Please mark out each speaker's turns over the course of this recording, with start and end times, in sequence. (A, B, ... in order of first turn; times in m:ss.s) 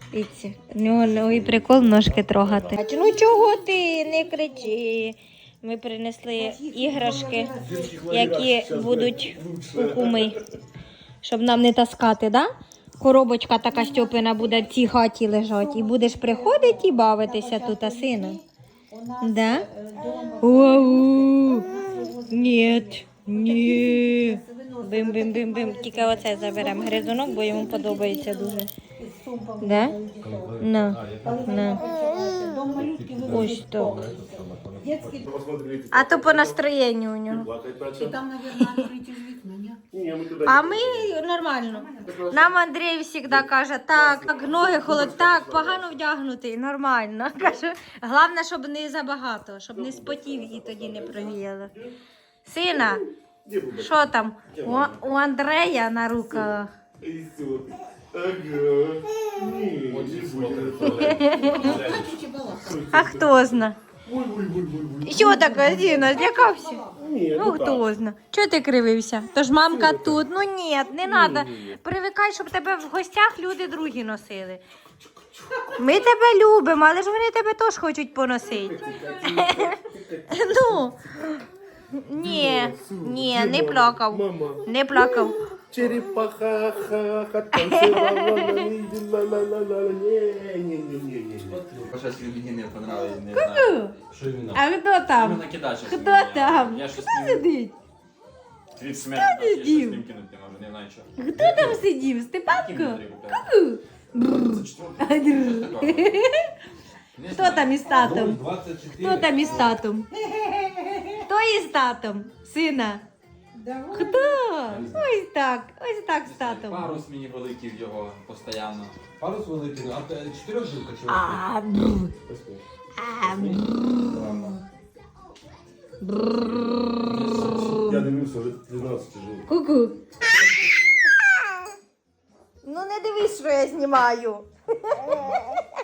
0:00.1-0:07.5 A
0:00.9-0:02.7 B
0:01.1-0:01.6 C
0:02.7-0:04.7 D
0:06.4-0:08.0 D
0:07.5-0:10.4 E
0:08.1-0:10.4 A
0:11.2-0:18.4 A
0:13.6-0:14.9 D
0:15.5-0:30.6 D
0:19.2-0:19.7 A
0:20.4-0:21.7 A
0:22.3-0:28.7 A
0:29.6-0:30.0 A
0:30.2-0:31.7 B
0:30.6-0:31.8 A
0:31.2-0:35.3 D
0:32.7-0:35.3 B
0:33.2-0:34.0 A
0:35.2-0:36.6 E
0:35.9-0:37.5 A
0:37.3-0:38.2 E
0:38.0-0:39.8 D
0:39.9-0:41.2 E
0:40.4-0:51.7 A
0:41.7-0:42.2 D
0:42.0-0:42.6 E
0:43.3-0:46.0 E
0:49.7-0:51.9 E
0:52.4-0:53.0 A
0:52.7-0:55.0 E
0:53.8-0:56.7 A
0:56.3-1:06.1 E
0:59.9-1:02.1 B
1:00.8-1:01.8 A
1:01.1-1:02.8 D
1:02.9-1:03.8 A
1:05.0-1:14.6 A
1:05.6-1:07.0 D
1:07.0-1:07.9 E
1:09.7-1:10.2 E
1:10.9-1:11.7 E
1:15.0-1:15.8 E
1:15.8-1:19.8 A
1:18.4-1:21.0 E
1:20.3-1:21.4 A
1:21.9-1:25.4 A
1:22.1-1:24.7 E
1:25.0-1:25.3 D
1:25.7-1:31.6 E
1:27.5-1:28.7 A
1:31.5-1:31.9 B
1:31.8-1:34.0 C
1:33.3-1:34.0 A
1:34.1-1:34.6 B
1:34.5-1:37.7 A
1:35.1-1:37.4 C
1:38.7-1:41.1 C
1:39.0-1:40.0 A
1:41.2-1:46.5 A
1:41.4-1:41.8 B
1:42.5-1:43.5 C
1:44.3-1:45.1 B
1:44.3-1:46.3 C
1:47.1-1:47.9 C
1:47.3-1:48.4 A
1:47.9-1:49.7 B
1:49.0-1:50.1 A
1:50.1-1:51.3 D
1:51.2-1:53.0 A
1:53.5-1:54.4 D
1:53.9-1:56.8 A
1:54.7-1:55.1 B
1:56.2-1:59.0 C
1:59.2-2:01.4 B
2:01.0-2:02.1 A
2:02.3-2:02.6 E
2:03.0-2:04.4 A
2:03.2-2:03.7 B
2:04.0-2:04.6 C
2:06.0-2:08.0 A
2:06.9-2:07.9 C
2:07.8-2:09.5 E
2:09.5-2:10.0 A
2:12.6-2:15.6 A